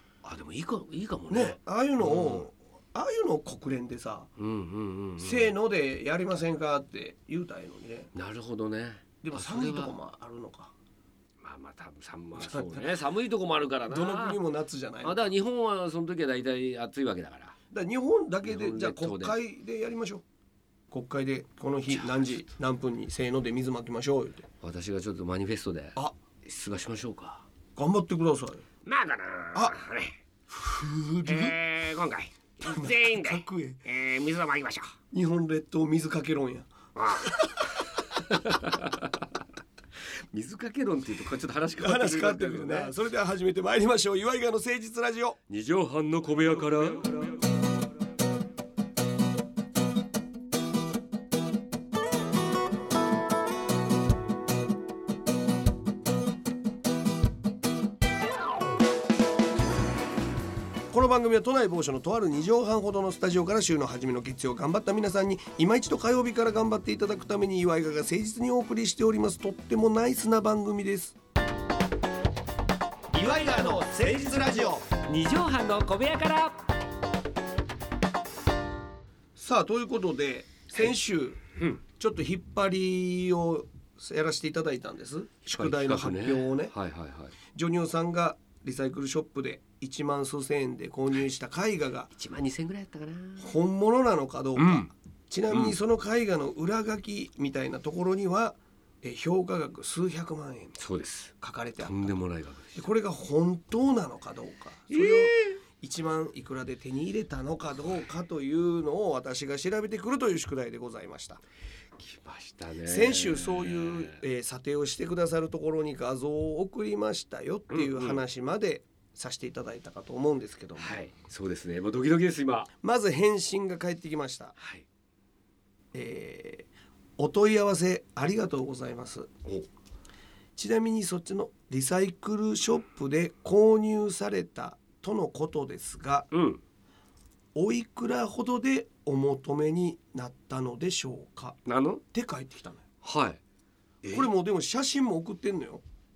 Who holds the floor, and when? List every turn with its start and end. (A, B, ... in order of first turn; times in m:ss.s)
0:00.2-0:02.4 A
0:01.3-0:04.3 B
0:04.4-0:05.5 A
0:05.2-0:08.1 B
0:08.1-0:10.0 A
0:09.2-0:10.7 B
0:11.4-0:14.4 A
0:12.4-0:13.0 B
0:13.9-0:15.3 B
0:15.0-0:17.6 A
0:17.7-0:20.2 B
0:18.4-0:19.4 A
0:20.9-0:24.5 B
0:21.9-0:22.4 A
0:24.6-0:27.4 A
0:27.8-0:28.6 B
0:28.9-0:30.2 A
0:30.5-0:31.6 B
0:31.3-0:35.0 A
0:32.6-0:33.8 B
0:35.1-0:37.5 B
0:37.0-0:39.2 A
0:40.3-0:43.0 A
0:41.8-0:45.4 B
0:45.5-0:47.4 A
1:00.9-1:11.2 B
1:13.1-1:14.8 B
1:13.2-1:16.7 A
1:19.4-1:21.4 B
1:22.0-1:26.7 B
1:25.5-1:27.4 A
1:27.5-1:32.1 B
1:32.2-1:33.5 A
1:33.4-1:40.8 B
1:34.6-1:34.9 A
1:35.5-1:35.8 A
1:40.8-1:42.9 A
1:41.4-1:42.1 B
1:42.8-1:51.4 B
1:44.9-1:45.6 A
1:52.0-1:54.2 A
1:52.9-2:01.0 B
1:57.7-1:58.2 A
2:00.8-2:02.7 A
2:02.8-2:04.6 B
2:04.6-2:04.9 A
2:05.9-2:09.3 B
2:10.6-2:16.3 B
2:16.3-2:16.6 A
2:17.6-2:21.6 B
2:21.7-2:22.0 A
2:22.1-2:22.8 B
2:23.0-2:23.4 A
2:24.0-2:24.3 A
2:24.1-2:25.8 B